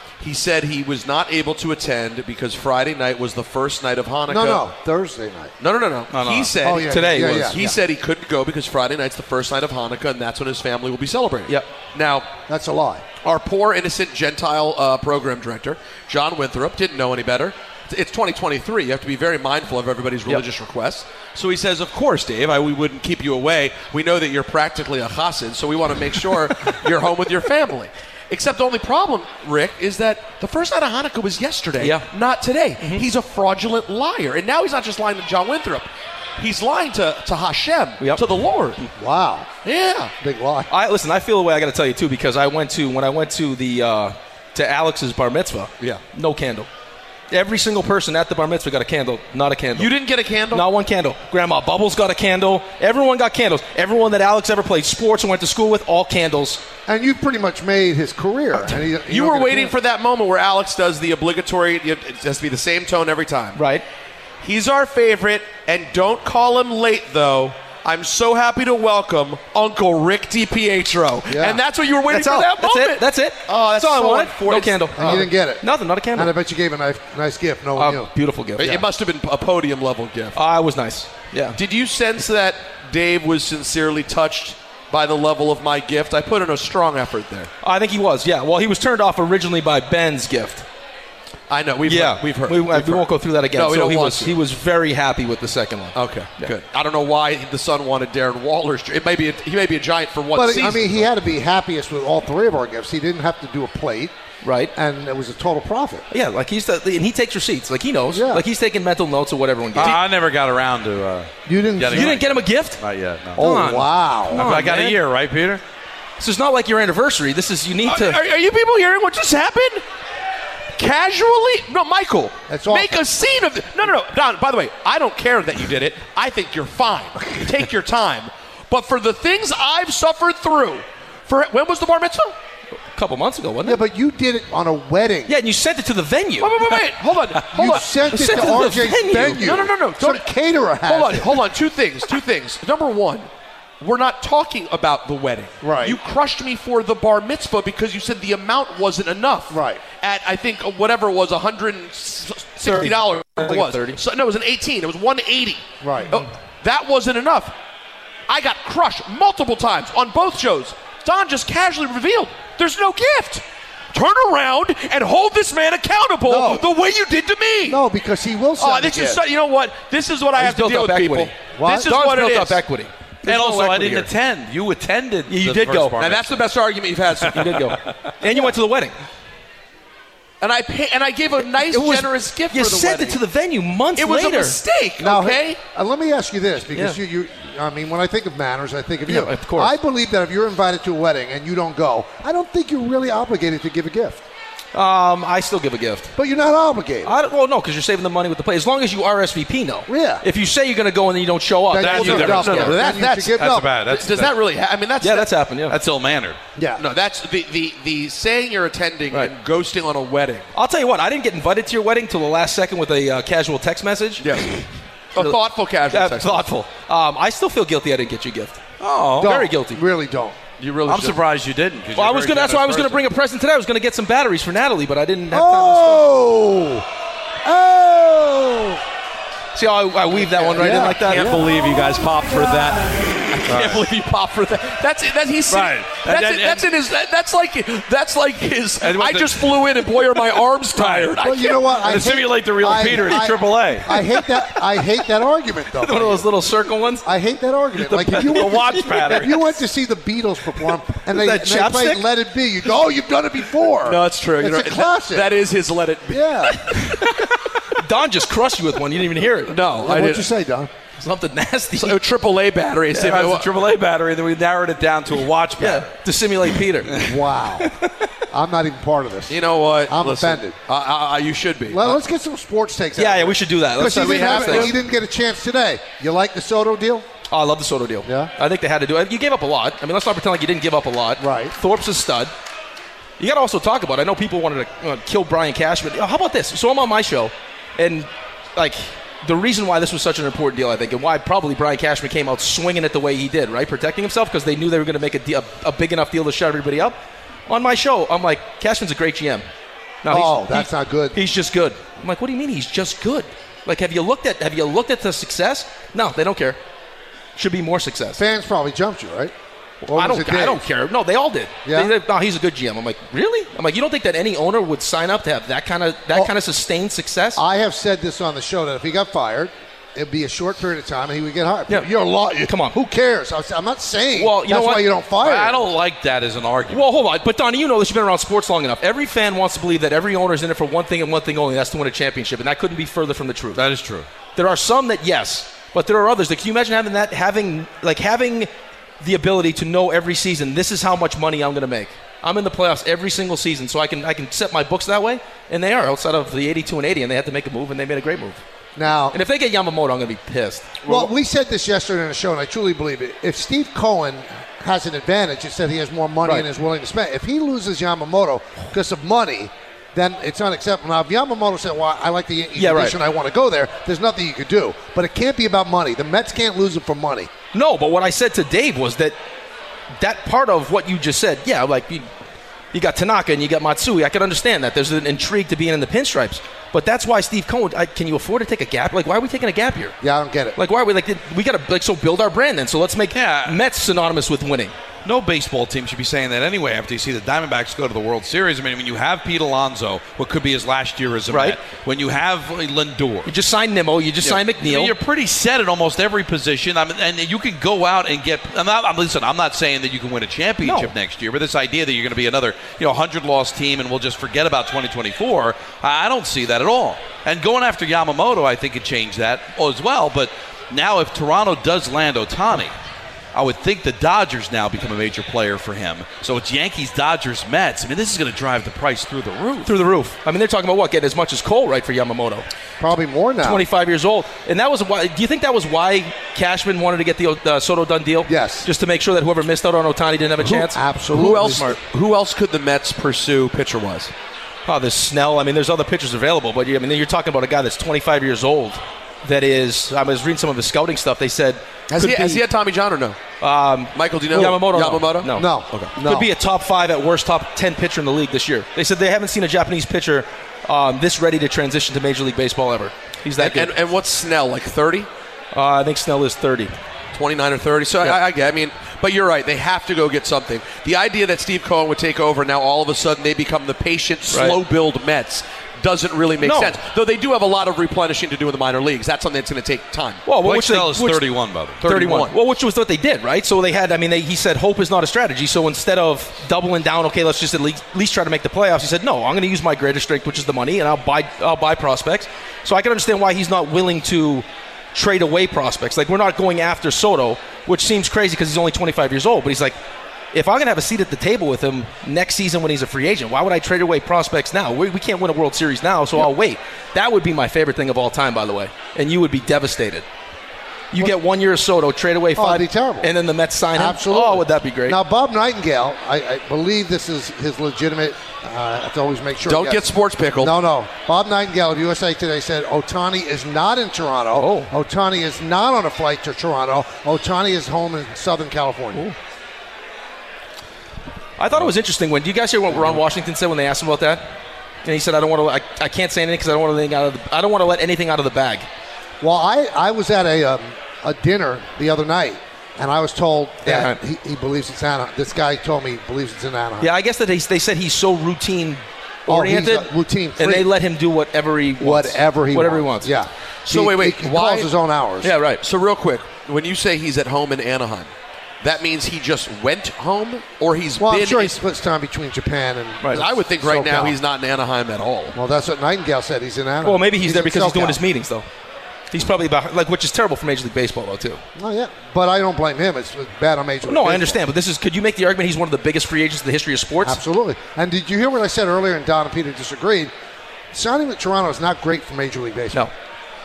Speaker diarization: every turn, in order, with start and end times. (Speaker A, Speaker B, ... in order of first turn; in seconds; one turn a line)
Speaker A: 0.2-4.7
Speaker B: 4.3-5.5
Speaker A: 5.6-12.3
Speaker C: 6.1-6.6
Speaker B: 6.6-7.8
Speaker D: 6.9-7.6
Speaker B: 12.5-13.1
Speaker A: 13.2-38.8
Speaker D: 31.8-32.0
Speaker D: 32.8-33.1
Speaker D: 38.0-38.2
Speaker B: 39.0-39.5
Speaker A: 39.6-40.1
Speaker B: 40.2-40.7
Speaker D: 40.7-46.7
Speaker D: 47.3-49.9
Speaker A: 49.8-50.7
Speaker D: 50.5-56.6
Speaker B: 56.9-59.8
Speaker A: 59.1-63.6
Speaker D: 63.6-63.9
Speaker A: 64.4-75.3
Speaker B: 71.3-71.6
Speaker D: 72.1-76.3
Speaker B: 75.0-78.1
Speaker D: 77.8-78.8
Speaker A: 78.6-80.4
Speaker D: 80.4-81.6
Speaker A: 81.6-87.5
Speaker D: 87.6-90.7
Speaker A: 91.5-94.4
Speaker C: 91.9-92.2
Speaker D: 91.9-96.5
Speaker A: 96.0-101.1
Speaker B: 100.3-104.1
Speaker D: 104.4-104.7
Speaker B: 104.8-106.0
Speaker D: 106.1-110.0
Speaker B: 108.1-108.5
Speaker C: 109.8-113.7
Speaker B: 111.5-112.2
Speaker D: 111.9-112.8
Speaker D: 113.4-115.0
Speaker B: 113.4-114.4
Speaker C: 114.3-115.6
Speaker D: 116.2-118.2
Speaker A: 117.8-119.8
Speaker A: 120.8-132.3
Speaker B: 122.5-123.1
Speaker D: 132.9-133.8
Speaker B: 133.6-135.3
Speaker D: 135.3-136.8
Speaker A: 136.4-140.3
Speaker B: 137.5-141.5
Speaker D: 137.6-139.6
Speaker A: 140.9-143.3
Speaker A: 143.8-157.6
Speaker B: 145.6-146.0
Speaker B: 149.5-149.8
Speaker D: 152.7-154.0
Speaker B: 155.8-156.1
Speaker A: 158.3-167.8
Speaker B: 166.3-166.7
Speaker B: 167.7-169.2
Speaker A: 168.6-172.6
Speaker D: 170.4-174.1
Speaker B: 171.5-171.9
Speaker C: 173.2-176.5
Speaker D: 175.3-176.0
Speaker A: 176.0-177.6
Speaker C: 177.2-178.1
Speaker D: 177.3-178.9
Speaker A: 180.4-183.2
Speaker D: 181.6-184.6
Speaker A: 184.0-185.6
Speaker B: 185.0-194.2
Speaker D: 189.1-189.7
Speaker D: 194.7-196.1
Speaker B: 196.2-197.1
Speaker D: 197.1-202.8
Speaker B: 199.9-200.2
Speaker B: 201.7-203.7
Speaker C: 201.8-204.4
Speaker A: 201.9-205.3
Speaker D: 205.0-205.8
Speaker C: 205.7-206.4
Speaker B: 206.6-206.8
Speaker A: 206.8-210.5
Speaker D: 210.5-214.6
Speaker A: 214.2-214.5
Speaker A: 215.2-216.5
Speaker D: 215.9-218.6
Speaker C: 218.8-219.3
Speaker D: 219.2-219.8
Speaker B: 219.2-220.4
Speaker A: 220.6-221.2
Speaker C: 220.9-223.1
Speaker D: 222.0-226.1
Speaker B: 225.3-226.9
Speaker B: 227.4-228.8
Speaker D: 229.5-231.4
Speaker B: 230.3-231.6
Speaker A: 230.6-242.1
Speaker C: 233.5-233.9
Speaker C: 235.5-236.7
Speaker C: 238.8-241.2
Speaker B: 241.2-246.3
Speaker C: 241.8-243.9
Speaker D: 244.2-244.6
Speaker D: 245.8-247.1
Speaker B: 247.0-255.3
Speaker D: 247.9-249.4
Speaker C: 248.2-249.6
Speaker D: 251.1-252.0
Speaker A: 253.8-256.3
Speaker B: 256.1-256.7
Speaker D: 256.7-259.6
Speaker A: 259.5-260.3
Speaker B: 259.8-260.7
Speaker D: 260.9-262.0
Speaker A: 261.8-263.5
Speaker C: 262.9-266.0
Speaker D: 265.6-267.1
Speaker B: 267.0-267.7
Speaker D: 267.6-268.1
Speaker B: 268.3-270.6
Speaker A: 269.3-272.0
Speaker B: 271.7-277.1
Speaker D: 273.0-274.8
Speaker C: 273.8-274.7
Speaker D: 277.3-282.3
Speaker B: 278.1-278.3
Speaker B: 281.2-281.6
Speaker D: 283.2-297.0
Speaker D: 297.5-299.4
Speaker D: 300.0-306.6
Speaker B: 300.1-301.2
Speaker D: 307.4-308.2
Speaker B: 308.2-309.3
Speaker D: 309.9-317.4
Speaker B: 309.9-310.6
Speaker B: 311.6-312.0
Speaker B: 317.4-325.6
Speaker D: 322.5-322.8
Speaker D: 324.2-324.9
Speaker C: 325.2-326.9
Speaker D: 326.7-333.6
Speaker C: 333.6-334.1
Speaker D: 334.4-338.5
Speaker D: 339.0-348.4
Speaker B: 348.8-349.2
Speaker D: 349.1-350.8
Speaker A: 350.9-351.1
Speaker B: 350.9-367.3
Speaker D: 362.6-363.0
Speaker D: 367.5-369.2
Speaker D: 370.0-372.1
Speaker D: 372.7-380.0
Speaker B: 380.0-380.6
Speaker D: 380.6-384.7
Speaker C: 383.1-383.6
Speaker C: 385.1-393.3
Speaker D: 391.3-391.6
Speaker D: 393.3-394.9
Speaker C: 394.2-412.7
Speaker D: 400.6-400.9
Speaker C: 413.3-419.7
Speaker D: 419.6-422.5
Speaker B: 422.8-423.6
Speaker D: 423.4-430.8
Speaker B: 428.3-428.7
Speaker B: 430.4-431.7
Speaker A: 431.1-434.1
Speaker D: 434.7-442.4
Speaker A: 441.9-443.2
Speaker D: 443.4-453.8
Speaker A: 443.9-445.9
Speaker B: 445.3-446.3
Speaker A: 453.4-455.1
Speaker D: 455.5-456.7
Speaker A: 457.1-470.2
Speaker D: 464.3-464.6
Speaker D: 466.4-466.8
Speaker D: 470.3-471.3
Speaker C: 470.4-471.8
Speaker A: 471.8-472.4
Speaker D: 471.8-489.8
Speaker D: 490.3-500.1
Speaker D: 500.9-505.0
Speaker B: 502.4-503.1
Speaker B: 503.8-509.9
Speaker A: 509.4-510.6
Speaker B: 510.4-519.0
Speaker D: 514.4-514.7
Speaker D: 521.4-524.3
Speaker D: 524.8-528.7
Speaker B: 529.2-536.9
Speaker D: 533.6-534.0
Speaker D: 536.8-543.2
Speaker B: 539.3-540.7
Speaker B: 541.8-545.3
Speaker A: 543.7-544.7
Speaker D: 545.2-545.6
Speaker A: 545.6-548.1
Speaker A: 548.6-551.6
Speaker B: 551.0-554.2
Speaker A: 553.1-555.4
Speaker B: 555.3-558.0
Speaker D: 556.8-558.5
Speaker D: 559.1-561.4
Speaker B: 561.6-564.4
Speaker D: 563.9-567.2
Speaker B: 567.0-570.1
Speaker B: 570.7-572.9